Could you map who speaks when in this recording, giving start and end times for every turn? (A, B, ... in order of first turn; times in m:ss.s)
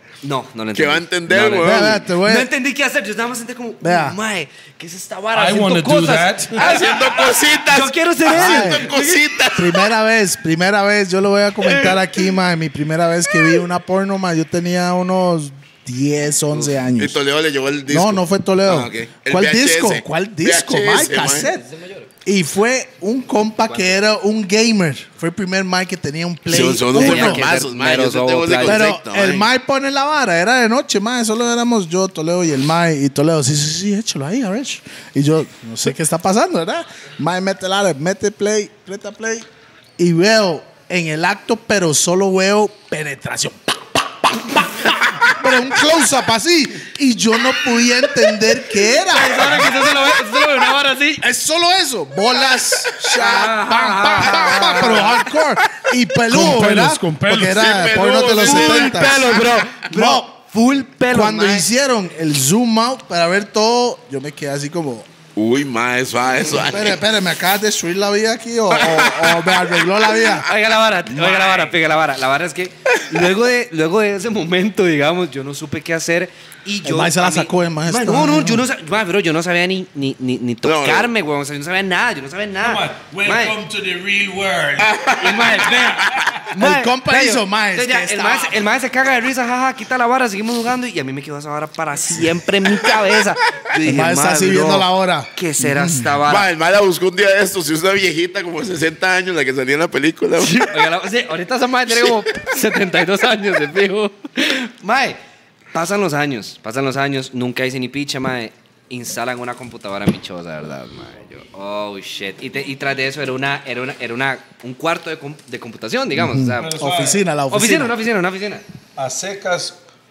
0:00.2-0:09.2 A
0:00.7-0:02.1 B
0:01.5-0:02.5 C
0:03.8-0:04.2 C
0:05.3-0:06.8 D
0:06.6-0:09.8 B
0:08.2-0:08.9 C
0:09.5-0:17.2 C
0:11.7-0:12.0 B
0:17.0-0:21.5 B
0:17.9-0:21.6 C
0:21.2-0:22.1 A
0:22.2-0:27.4 C
0:23.6-0:24.0 A
0:26.5-0:29.5 B
0:26.9-0:28.9 A
0:28.6-0:39.5 C
0:40.0-0:49.7 C
0:49.0-0:51.2 A
0:51.2-1:00.3 C
0:53.1-0:55.2 A
0:54.2-0:55.0 B
0:56.3-0:58.1 D
0:57.5-0:59.7 B
0:58.4-1:01.7 A
1:01.1-1:05.1 C
1:05.3-1:07.0 B
1:06.5-1:10.5 C
1:08.7-1:10.4 B
1:10.4-1:23.6 A
1:16.8-1:18.6 C
1:20.6-1:21.1 B
1:22.6-1:25.1 D
1:24.8-1:26.2 B
1:25.2-1:36.5 A
1:25.7-1:26.2 D
1:26.6-1:28.6 C
1:33.8-1:36.2 C
1:36.2-1:40.6 B
1:40.4-1:45.2 A
1:45.7-1:56.9 A
1:56.1-1:58.0 C
1:56.6-1:57.2 D
1:57.5-1:58.6 A
1:59.0-1:59.8 D